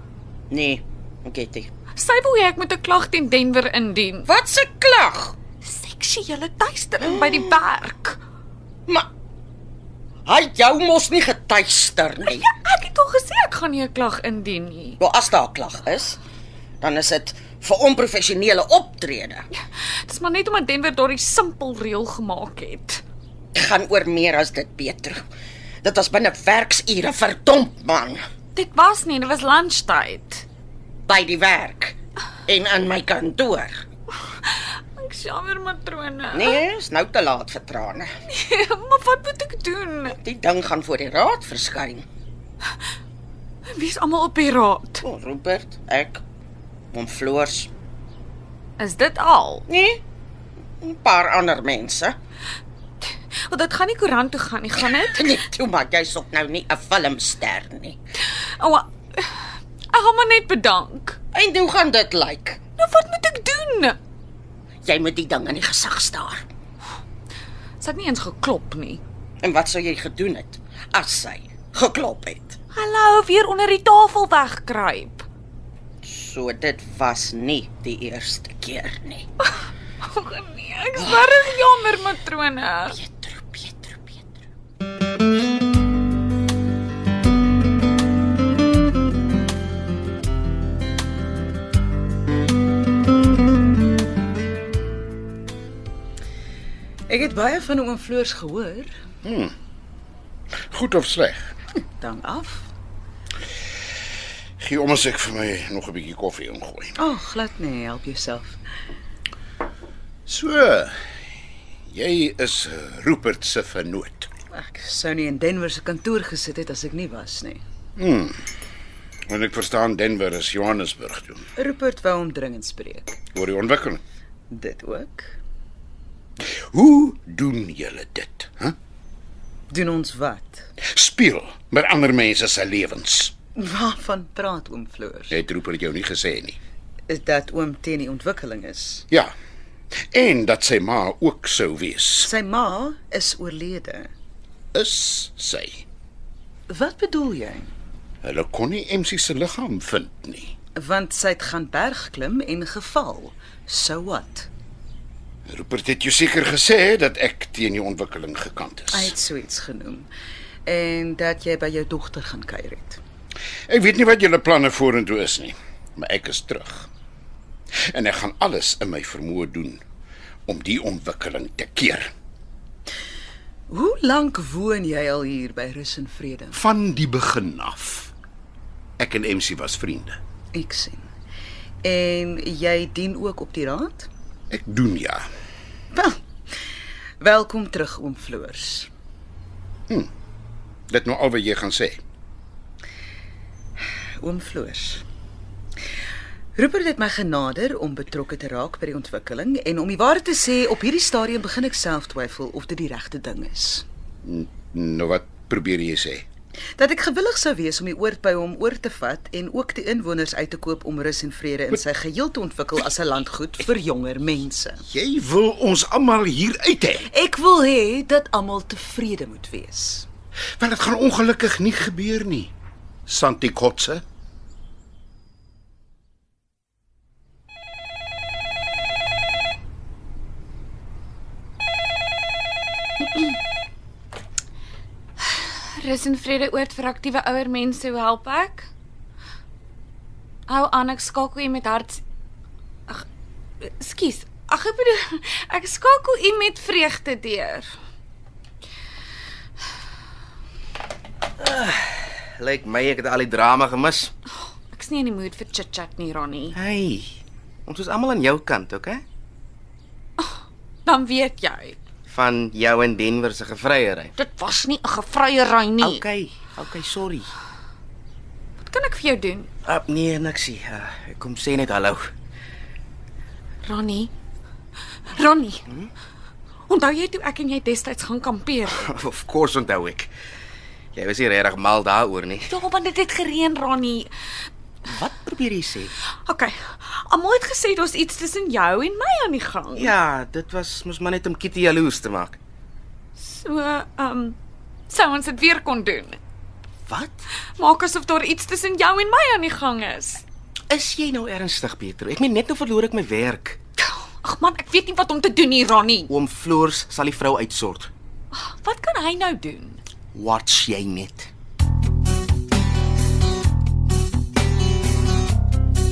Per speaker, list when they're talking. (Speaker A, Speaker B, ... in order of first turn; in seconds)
Speaker A: 0.5-1.7, 4.3-5.4, 7.0-7.7, 10.3-12.5, 15.0-16.2, 16.8-19.5, 23.6-25.2, 25.8-28.2, 31.1-33.8, 36.3-38.1, 40.1-42.0, 45.0-46.2, 46.9-47.7, 49.7-50.0, 50.8-52.2, 54.9-58.0, 61.3-62.6, 64.8-66.4, 69.4-72.6, 76.0-79.2, 81.0-81.6, 82.9-84.3
Speaker B: 2.0-4.3, 5.6-8.2, 12.3-15.0, 20.1-23.0, 28.6-30.4, 34.4-36.6, 38.3-40.2, 43.8-45.0, 48.8-49.7, 53.5-55.4, 58.6-59.4, 59.9-61.2, 62.8-64.0, 67.8-69.0, 72.7-75.3, 80.0-83.0, 235.3-238.7, 240.5-242.0, 243.6-247.7, 254.7-256.6, 260.2-261.8, 264.2-266.1, 268.7-269.5, 273.6-274.1, 275.1-275.6, 276.7-278.9, 282.5-284.1, 286.2-289.9, 293.2-294.4, 294.9-296.2, 297.6-300.2, 303.8-306.1, 308.3-309.8
Speaker C: 97.1-98.9, 101.8-102.7, 107.0-108.6, 114.5-117.6, 121.6-123.2, 124.5-125.4, 129.7-130.7, 133.6-135.4, 137.1-139.1, 142.2-144.1, 146.7-147.7, 150.8-154.5, 158.9-160.1, 160.7-163.0, 173.7-176.6, 180.5-181.1, 181.8-184.1, 185.9-186.2, 187.2-188.9, 194.2-195.1, 196.6-203.9, 206.8-214.8, 217.1-220.1
Speaker D: 99.2-99.5, 100.7-101.5, 104.6-107.0, 110.3-111.0, 111.9-114.3, 118.0-118.4, 119.3-121.5, 123.3-124.0, 126.5-128.8, 130.8-133.3, 135.3-136.6, 140.1-142.3, 144.7-145.8, 148.2-150.5, 155.5-159.2, 163.7-166.9, 167.9-169.8, 170.5-172.1, 176.5-178.1, 179.0-180.2, 184.5-185.3, 190.9-192.0, 204.2-206.2, 214.9-217.1, 220.6-222.5, 223.1-224.0
Speaker E: 251.4-254.1, 256.6-257.2, 257.7-259.0, 262.1-264.1, 265.8-267.3, 269.6-272.1, 278.7-280.1, 280.9-282.5, 284.9-285.9, 289.8-292.4, 296.9-297.3, 300.7-303.6, 306.1-307.9, 310.1-311.3